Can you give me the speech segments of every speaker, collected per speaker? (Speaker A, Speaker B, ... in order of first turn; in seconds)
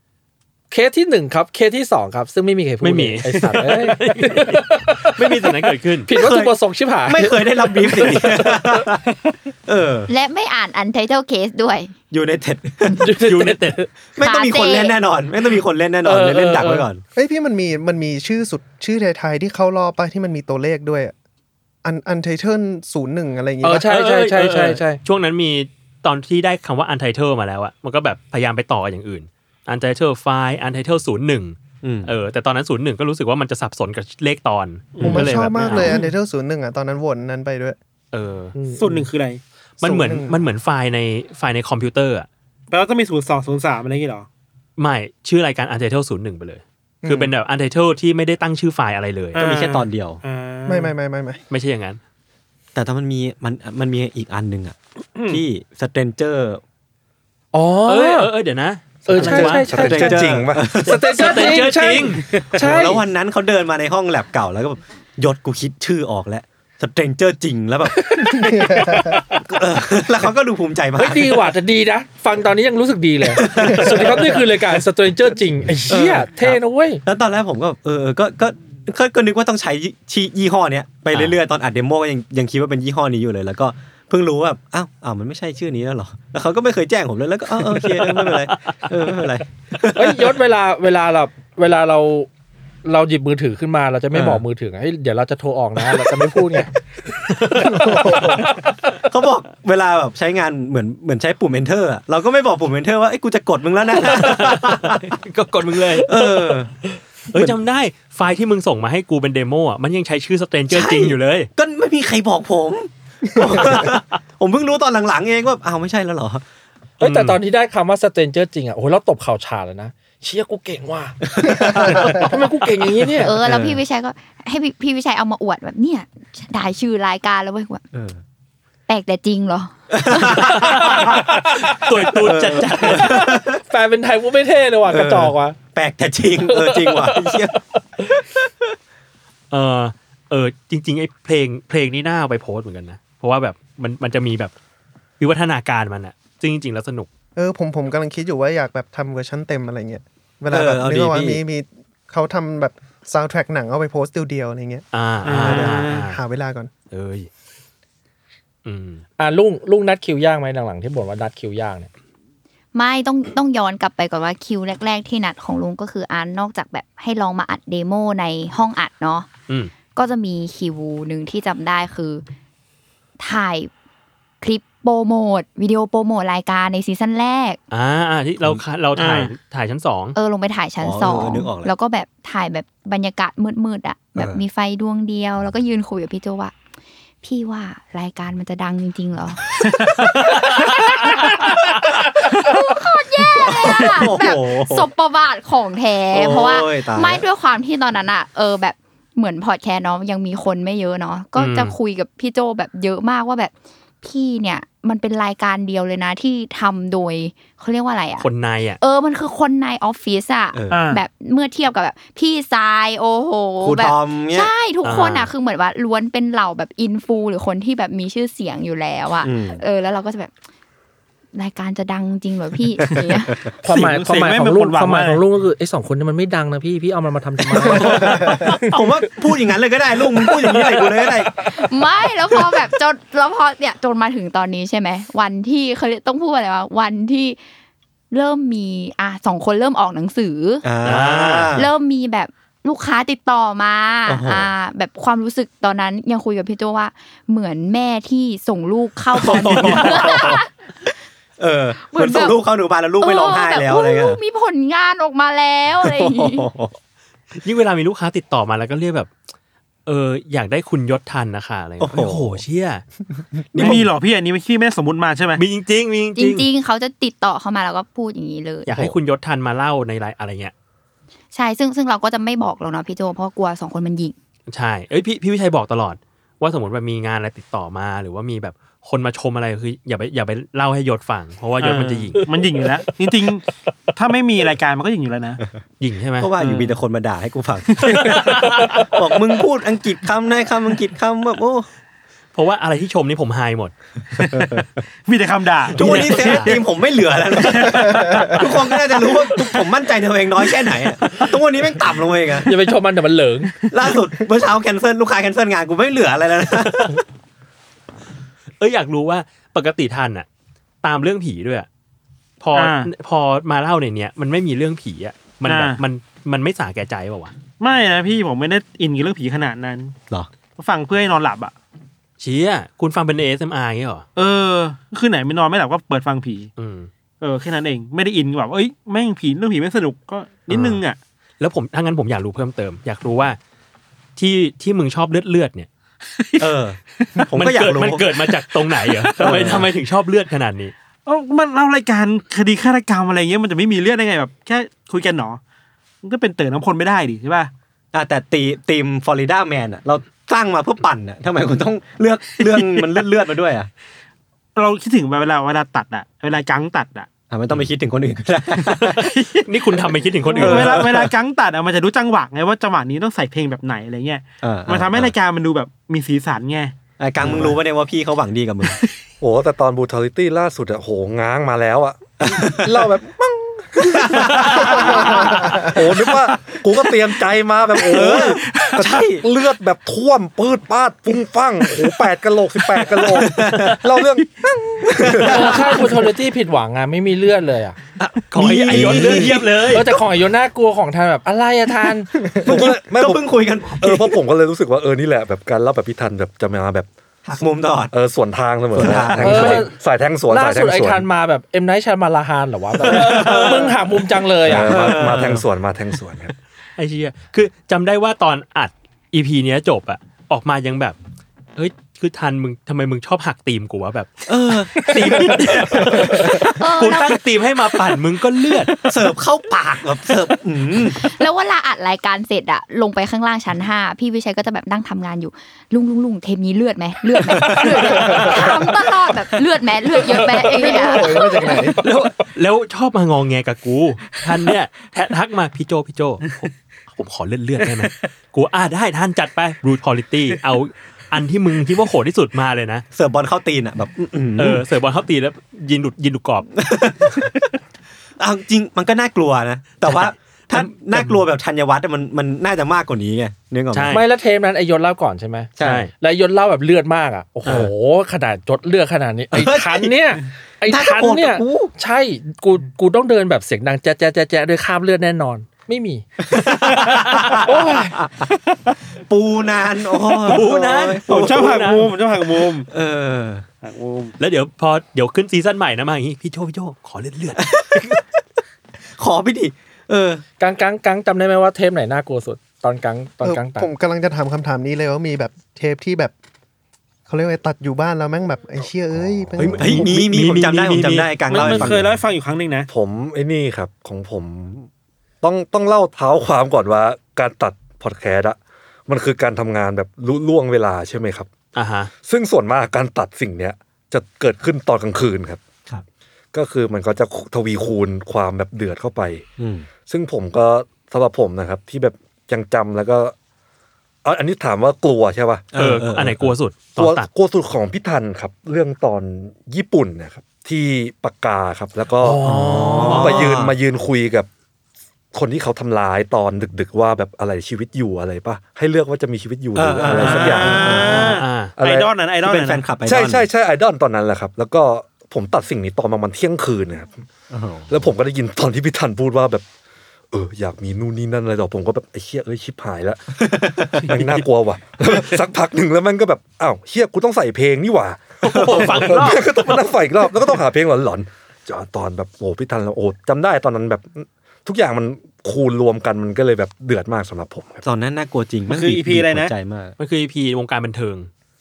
Speaker A: 0.7-5.5, 6.1-8.9, 12.9-13.9, 16.0-16.9, 23.6-25.0, 57.5-58.3, 59.0-63.0, 68.0-69.4, 71.0-77.0, 90.0-92.3, 92.8-96.7, 117.0-123.3, 130.9-132.1, 132.8-135.6, 136.5-138.1, 159.2-161.9, 223.6-228.6, 302.4-303.5, 385.2-387.8, 389.7-392.1, 399.2-399.7, 400.3-404.8, 431.4-431.9, 453.9-466.8, 467.3-468.0, 480.4-483.7, 522.0-523.2
Speaker B: 2.8-6.1, 13.2-13.8, 23.9-36.0, 38.1-38.5, 39.8-42.3, 44.8-49.4, 51.5-52.0, 57.9-59.9, 60.9-62.3, 87.8-88.8, 97.3-98.3, 104.0-106.3, 107.3-111.5, 117.0-117.4, 130.5-133.2, 139.5-144.5, 145.2-147.1, 154.9-156.2, 156.9-157.3, 158.7-159.0, 177.7-180.2, 190.3-191.1, 201.4-201.7, 208.2-208.8, 214.8-215.3, 240.8-241.6, 257.4-259.1, 259.9-262.8, 265.4-266.5, 268.7-270.5, 274.5-282.3, 285.8-286.7, 287.9-288.9, 292.3-294.5, 295.8-296.6, 306.7-307.0, 308.6-310.3, 310.8-311.7, 312.4-317.3, 322.2-324.1, 326.6-326.9, 330.5-330.8, 331.4-333.4, 334.2-335.7, 337.3-340.7, 359.0-360.9, 374.3-374.8, 388.3-389.9, 403.1-403.7, 406.8-411.0, 411.6-418.9, 431.8-442.9, 444.4-446.5, 449.9-451.2, 453.7-454.0, 455.6-455.9, 466.7-467.4, 470.0-471.9, 474.2-477.9, 489.7-491.4, 501.6-501.9, 515.5-517.1, 530.9-531.5, 548.2-549.2, 559.8-561.1
Speaker C: 6.2-6.5, 7.0-9.0, 9.7-10.1, 12.1-13.1, 14.2-17.0, 31.8-32.1, 49.4-50.2, 52.8-54.8, 55.3-56.6, 59.2-61.7, 62.3-68.6, 69.4-71.5, 73.3-74.4, 75.9-90.3, 94.1-94.4, 99.1-105.1, 106.0-106.8, 110.7-116.4, 121.3-122.3, 123.4-123.8, 127.9-128.2, 129.9-131.2, 132.2-133.6, 134.9-137.6, 150.5-151.4, 180.8-181.7, 184.2-184.4, 193.3-194.9, 196.1-197.2, 210.5-210.9, 213.6-214.5, 219.2-219.6, 227.5-231.4, 240.6-241.7, 244.1-244.5, 249.1-250.4, 251.4-254.2, 255.8-256.7, 261.8-262.4, 263.4-263.9, 286.2-291.7, 294.1-294.8, 295.8-302.5, 303.7-307.0, 336.4-338.1, 339.2-339.7, 347.9-353.7, 357.3-359.0, 360.3-361.1, 364.4-365.1, 367.0-368.8, 372.2-372.9, 373.8-375.8, 377.9-379.2, 383.1-383.8, 384.8-385.9, 388.0-389.7, 392.4-394.2, 397.2-397.9, 398.7-399.6, 402.8-403.7, 404.4-405.4, 414.3-416.7, 418.7-421.2, 427.2-428.4, 442.9-444.6, 446.6-447.5, 448.2-454.0, 455.6-455.9, 459.3-461.7, 466.3-468.1, 469.1-471.7, 472.7-473.5, 477.4-478.0, 479.0-480.2, 489.4-491.9, 509.4-509.7, 515.5-516.3, 522.2-523.5, 529.5-531.1, 532.2-533.2, 537.3-537.8, 543.3-543.7, 548.3-548.9, 557.6-559.8
Speaker D: 10.1-11.9, 14.2-15.0, 123.2-127.8, 128.9-130.7, 162.7-169.3, 169.9-172.2, 173.2-173.7, 174.4-177.6, 180.2-186.5, 187.2-189.6, 190.2-208.3, 208.8-220.3, 221.3-223.4, 231.5-237.4, 238.1-240.6, 241.6-250.5, 251.8-252.4, 253.0-256.5, 266.2-268.9, 271.3-274.1, 416.6-417.2, 420.9-431.6
Speaker E: 17.2-21.1, 21.8-23.9, 35.0-37.8, 38.7-39.0, 39.8-40.4, 47.0-47.3, 50.7-51.4, 68.4-69.2, 97.7-98.4, 147.4-156.7, 430.6-431.8, 483.2-486.1, 487.1-489.8
Speaker F: 35.0-36.1, 38.7-39.4, 42.7-44.3, 49.4-51.0, 55.2-55.4, 155.2-156.1, 178.9-179.3, 210.7-211.0, 223.7-225.2, 263.6-265.4, 281.6-285.4, 295.1-296.7, 297.3-298.5, 312.6-312.9, 315.4-315.8, 317.6-320.0, 320.6-321.5, 324.2-326.5, 327.2-331.0, 336.1-337.3, 338.7-339.6, 341.1-345.4, 346.0-347.5, 352.6-352.9, 354.6-357.1, 358.6-366.8, 378.4-378.8, 471.1-472.7, 473.6-474.2, 491.3-492.7, 529.9-532.7, 558.5-559.4
Speaker G: 59.3-60.8, 367.2-367.5, 369.2-385.7, 392.4-396.9, 397.9-401.1, 404.5-406.3, 489.3-489.9, 491.5-491.8, 492.7-494.7, 495.2-501.3, 502.1-505.5, 506.3-509.2, 509.9-513.1, 514.0-515.5, 516.8-524.3, 525.1-531.0, 531.6-531.9, 532.9-537.0, 537.7-539.5, 540.1-557.6